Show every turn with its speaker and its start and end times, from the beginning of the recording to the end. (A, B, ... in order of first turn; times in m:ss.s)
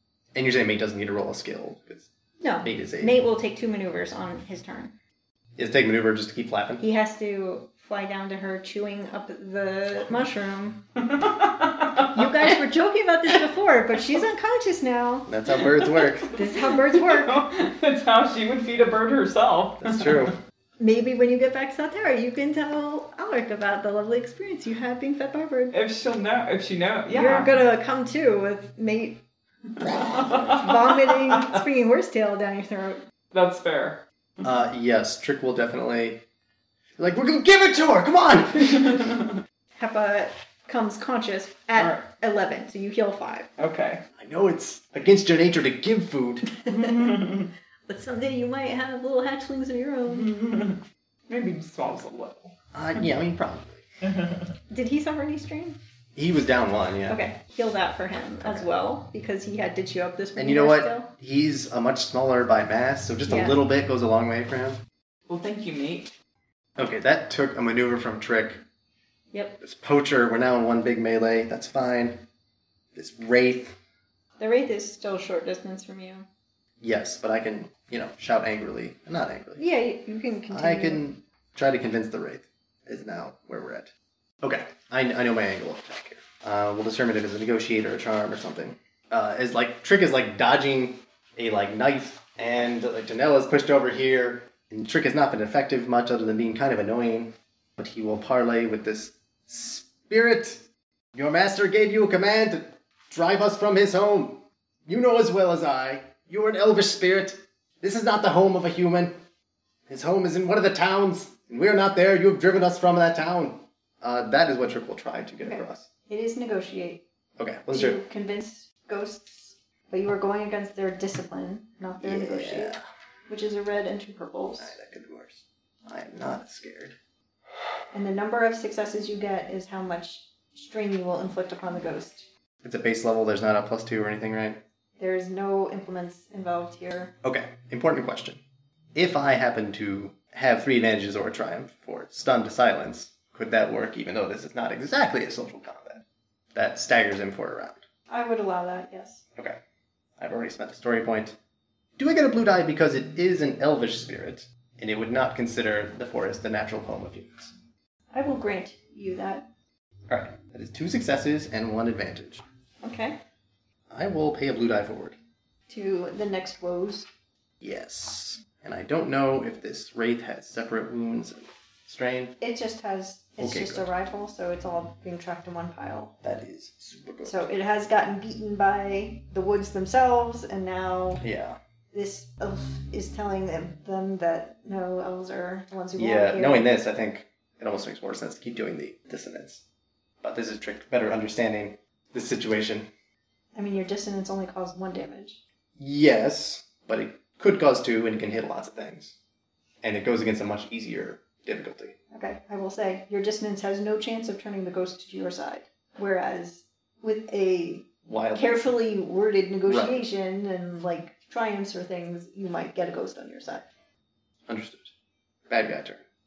0:00.3-0:02.1 A
0:02.4-0:04.9 B
0:02.6-0:03.2 A
0:05.6-0:06.8 A
0:06.8-0:10.9 B
0:11.0-0:12.6 C
0:12.0-0:15.3 B
0:15.3-0:16.3 A
0:15.6-0:20.3 C
0:16.3-0:17.4 B
0:19.8-0:20.4 A
0:20.8-0:25.7 B
0:25.7-0:27.6 C
0:27.1-0:29.2 B
0:29.8-0:30.6 A
0:29.8-0:31.6 C
0:30.4-0:33.0 B
0:33.3-0:34.0 C
0:34.4-0:36.2 A
0:37.0-0:39.2 A
0:39.8-0:43.5 B
0:41.7-0:42.0 C
0:43.6-0:44.0 C
0:44.2-0:46.5 A
0:46.6-0:50.3 B
0:46.8-0:47.4 C
0:50.1-0:53.0 C
0:52.7-0:53.8 A
0:54.0-0:54.5 C
0:54.7-0:55.8 B
0:56.2-0:57.2 A
0:57.1-1:01.1 B
1:00.4-1:04.8 A
1:03.2-1:03.6 B
1:05.3-1:06.1 C
1:06.8-1:08.6 A
1:09.3-1:09.6 B
1:09.6-1:12.2 A
1:12.9-1:13.8 A
1:14.4-1:16.2 B
1:16.8-1:19.6 A
1:19.6-1:21.0 B
1:20.5-1:49.2 A
1:49.9-1:55.9 A
1:55.4-1:57.0 B
1:57.4-1:58.0 A
1:57.7-2:02.8 B
2:02.0-2:02.8 A
2:03.3-2:04.7 B
2:04.6-2:07.0 A
2:07.9-2:12.3 B
2:12.6-2:14.6 A
2:15.0-2:17.1 B
2:17.2-2:18.4 A
2:18.9-2:26.0 A
2:26.5-2:27.8 A
2:28.1-2:29.2 B
2:30.2-2:31.4 A
2:32.0-2:37.5 A
2:38.1-2:39.4 B
2:40.1-2:42.4 A
2:42.8-2:43.2 B
2:43.9-2:45.2 A
2:45.7-2:47.1 B
2:47.6-2:52.4 A
2:52.4-2:56.1 B
2:53.4-2:53.9 A
2:56.2-2:57.5 A
2:57.2-3:01.2 B
3:01.2-3:01.6 A
3:01.9-3:06.6 B
3:06.0-3:09.6 A
3:10.2-3:12.9 A
3:13.5-3:15.4 B
3:15.8-3:19.2 A
3:19.8-3:22.0 A
3:22.1-3:33.7 B
3:28.0-3:28.7 A
3:29.7-3:30.0 A
3:34.5-3:34.9 A
3:35.5-3:36.0 A